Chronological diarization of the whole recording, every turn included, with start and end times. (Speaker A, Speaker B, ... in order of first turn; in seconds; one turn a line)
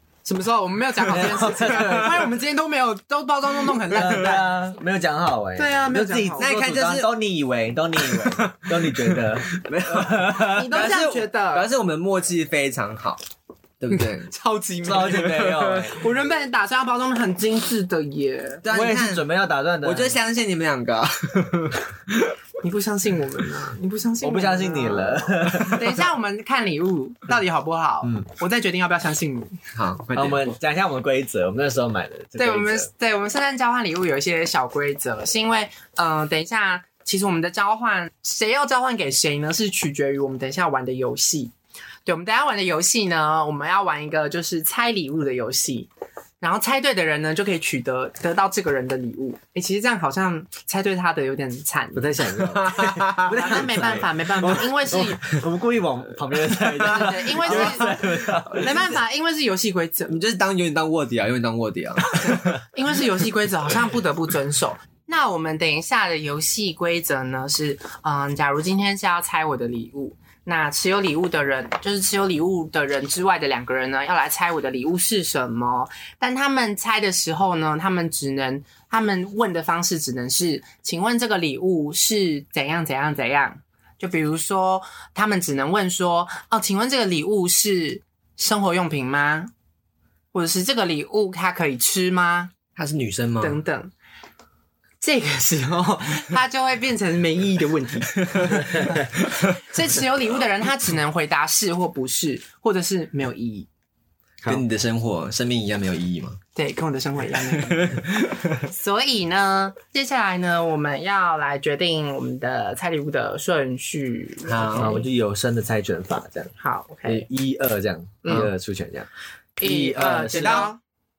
Speaker A: 0.2-4.5
Speaker B: 1.1-2.3
Speaker C: 1.5-1.9
Speaker B: 3.9-10.5
Speaker A: 5.6-6.5
Speaker C: 6.4-7.1
Speaker C: 8.0-13.2
Speaker A: 10.5-11.7
Speaker C: 13.8-14.3
Speaker A: 14.3-18.6
Speaker B: 14.8-16.0
Speaker C: 18.6-19.2
Speaker B: 18.7-20.2
Speaker C: 19.8-22.4
Speaker A: 22.6-29.6
Speaker B: 24.2-26.0
Speaker C: 29.7-30.5
Speaker B: 30.1-32.9
Speaker A: 32.4-41.5
Speaker A: 42.1-45.9
Speaker A: 46.4-52.4
Speaker B: 51.9-58.8
Speaker C: 52.5-53.6
Speaker A: 53.3-55.3
Speaker A: 56.8-60.2
Speaker C: 57.4-58.0
Speaker C: 60.1-62.5
Speaker A: 62.2-89.5
Speaker A: 90.3-92.5
Speaker C: 92.8-93.6
Speaker A: 93.4-93.9
Speaker A: 95.0-103.7
Speaker C: 104.5-106.4
Speaker A: 106.6-108.0
Speaker C: 107.6-108.5
Speaker A: 108.6-115.1
Speaker C: 114.5-115.0
Speaker B: 114.8-116.5
Speaker A: 116.6-117.3
Speaker B: 117.1-119.1
Speaker A: 118.2-118.5
Speaker B: 119.6-120.7
Speaker A: 119.6-120.8
Speaker C: 120.0-120.7